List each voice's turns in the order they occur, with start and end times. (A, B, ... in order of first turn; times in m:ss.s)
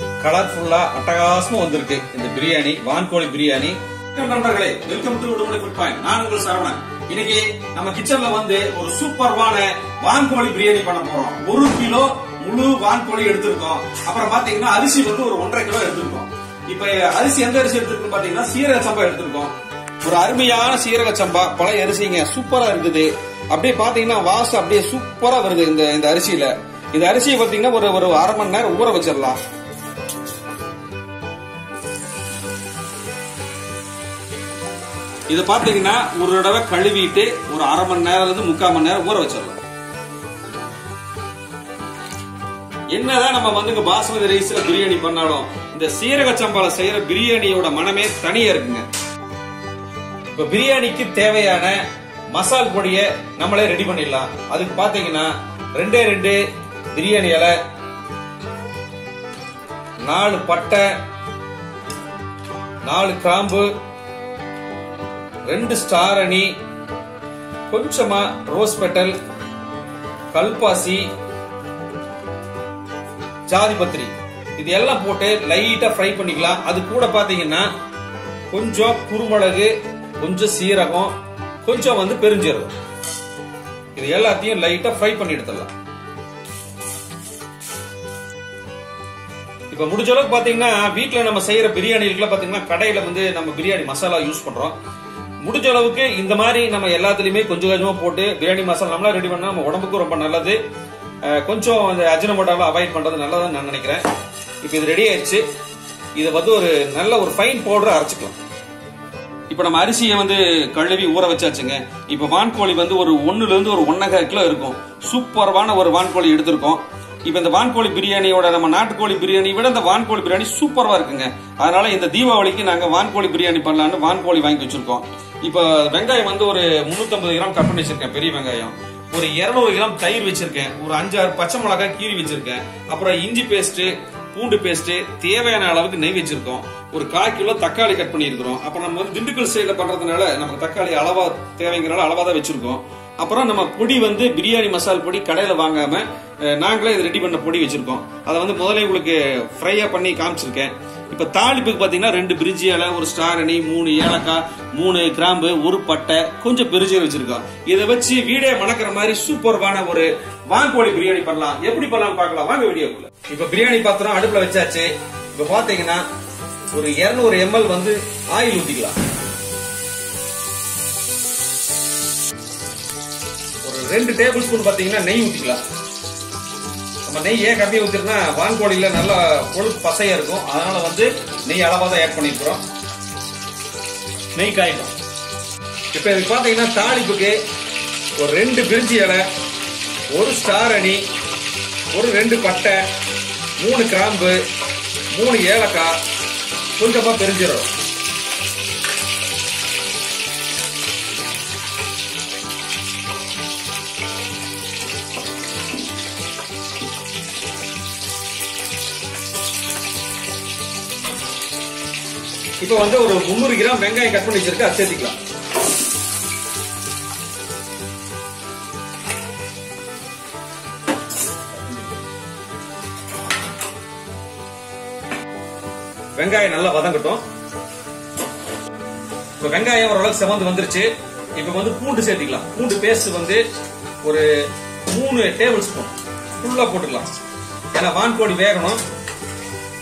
0:00.2-0:29.4 A
0:35.3-0:39.6 A
0:42.9-0:48.8 A
0:50.3-0:51.8 A
0:52.3-0:56.4 A
0:56.9-0:57.6 A
1:00.0-1:00.9 A
1:02.8-1:03.7 A
1:05.5-1:06.5 A
1:07.7-1:09.2 A
1:10.3-1:11.0 A
1:13.5-1:17.7 A
1:18.5-1:21.1 A
1:21.6-1:22.7 A
1:23.9-1:25.7 A
1:29.7-1:34.8 A
1:35.4-1:40.6 A
1:41.2-1:44.0 A
1:44.6-1:45.4 A
1:46.2-1:48.4 A
1:49.5-2:46.0 A
2:46.7-2:49.0 A
2:53.6-2:55.6 A
2:57.1-3:02.6 A
3:04.3-3:04.9 A
3:05.9-3:07.4 A
3:08.2-3:09.2 A
3:10.1-3:11.0 A
3:11.9-3:12.9 A
3:13.6-3:14.4 A
3:15.1-3:16.0 A
3:16.8-3:17.7 A
3:32.6-3:35.2 A
3:46.2-3:47.2 A
3:49.4-3:53.4 A
3:54.0-3:54.3 A
3:54.9-3:57.1 A
3:57.7-3:58.8 A